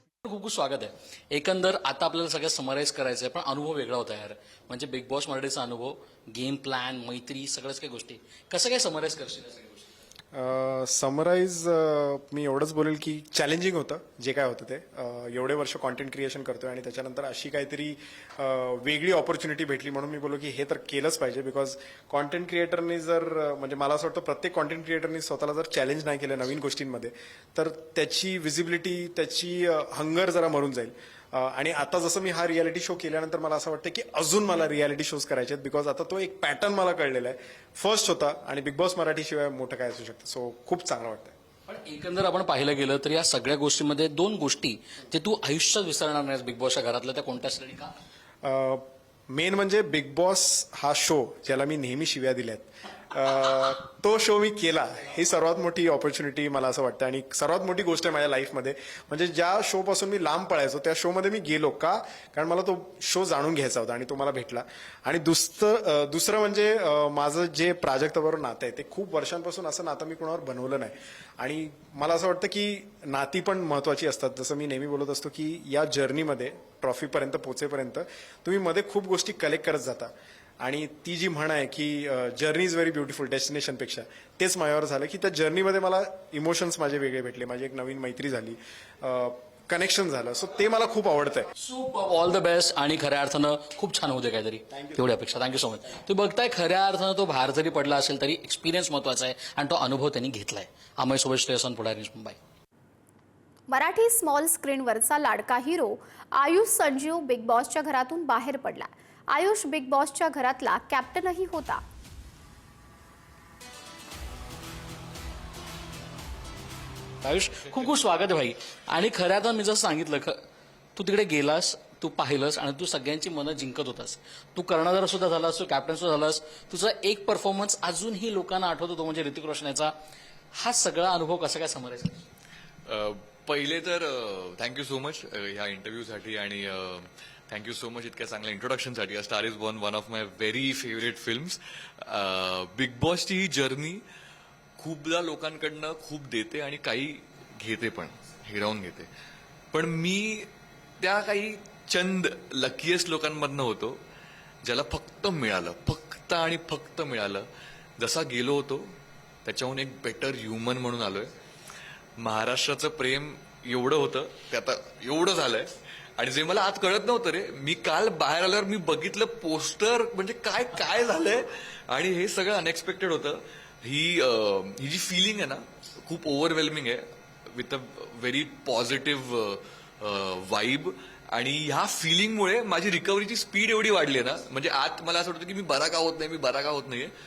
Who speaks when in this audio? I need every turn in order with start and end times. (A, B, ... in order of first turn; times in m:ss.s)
0:00.2-0:09.9 A
0:10.3-0:41.3 B
0:41.7-0:47.9 A
0:48.4-1:20.1 B
1:20.6-1:31.5 B
1:31.6-1:42.4 A
1:43.7-1:51.8 C
1:57.2-2:00.4 A
2:01.0-2:09.9 A
2:10.5-2:12.2 A
2:12.9-2:24.0 D
2:24.8-2:29.1 D
2:29.7-2:34.0 D
2:34.6-2:37.4 D
2:38.0-2:38.8 D
2:39.4-2:41.3 D
2:42.2-3:07.1 D